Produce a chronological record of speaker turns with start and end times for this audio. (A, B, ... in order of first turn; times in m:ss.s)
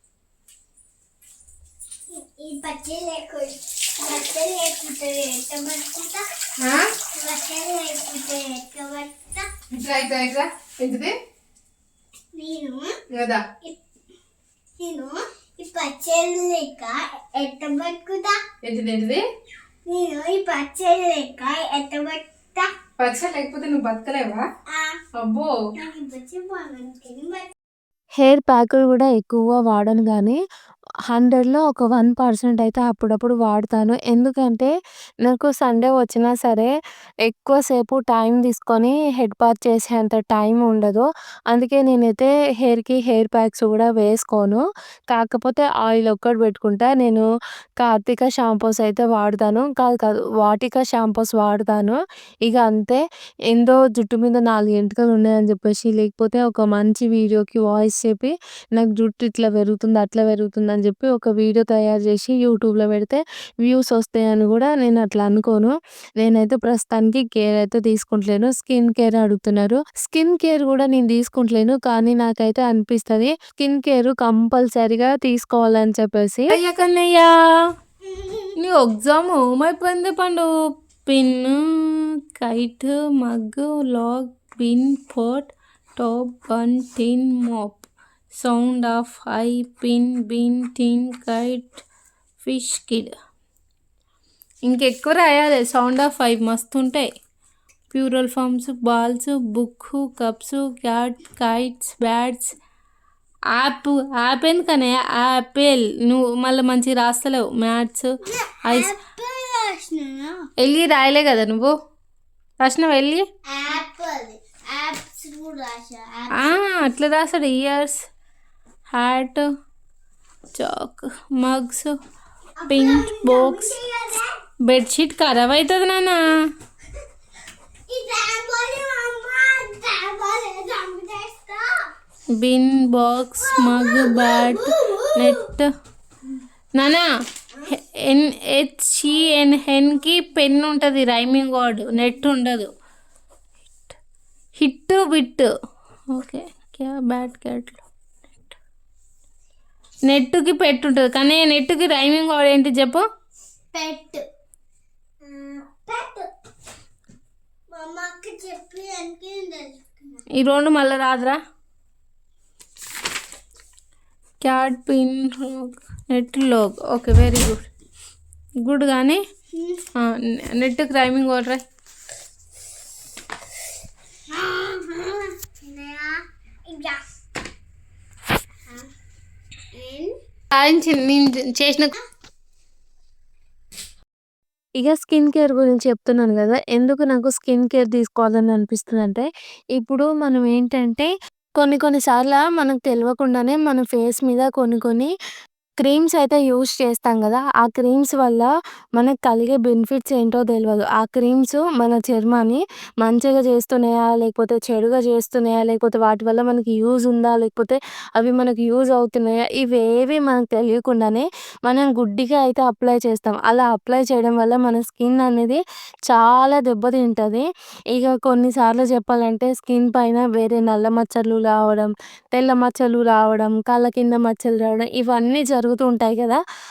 0:02.1-0:06.3 A
0:06.6-0:06.9 B
0:07.1-0:09.5 A
0:09.7-0:11.1 B
0:12.3-0:13.0 A
0:13.1-0:13.4 B
0:14.8-0:18.4 A
0:18.6-0:19.2 B
0:19.9-0:22.7 A
0:23.0-0:24.4 B
0:24.7-0:25.0 A
0:25.2-0:25.5 B
0:25.8-0:27.5 A
0:28.2-0:30.4 C
0:31.1-0:34.7 C
0:35.2-0:36.7 C
0:37.3-0:47.2 C
0:47.8-0:53.0 C
0:53.5-1:16.6 C
1:16.5-1:17.4 B
1:18.0-1:18.5 A
1:18.6-1:20.5 B
1:21.1-1:31.8 B
1:32.4-1:33.1 B
1:34.7-1:37.1 B
1:37.9-1:42.6 B
1:43.5-1:48.9 B
1:48.2-1:50.5 A
1:50.6-1:51.7 B
1:52.6-1:53.2 B
1:53.5-1:56.6 A
1:56.3-1:58.0 B
1:58.9-1:59.5 B
2:00.6-2:02.0 B
2:02.6-2:04.4 A
2:02.7-2:03.8 B
2:04.6-2:06.4 B
2:07.9-2:11.9 A
2:12.3-2:15.7 B
2:13.4-2:15.5 A
2:16.8-2:17.1 B
2:17.5-2:17.8 A
2:17.7-2:22.7 B
2:24.6-2:25.5 B
2:26.1-2:27.8 B
2:30.0-2:33.0 B
2:33.7-2:34.2 A
2:35.2-2:36.3 A
2:37.7-2:40.2 A
2:40.4-2:41.4 B
2:44.4-2:47.6 B
2:48.6-2:49.2 B
2:49.5-2:49.8 A
2:50.0-2:51.6 B
2:54.3-2:57.0 A
2:59.7-3:00.2 A
3:00.5-3:02.0 B
3:04.8-3:09.3 C
3:09.8-3:15.1 C
3:15.8-3:46.4 C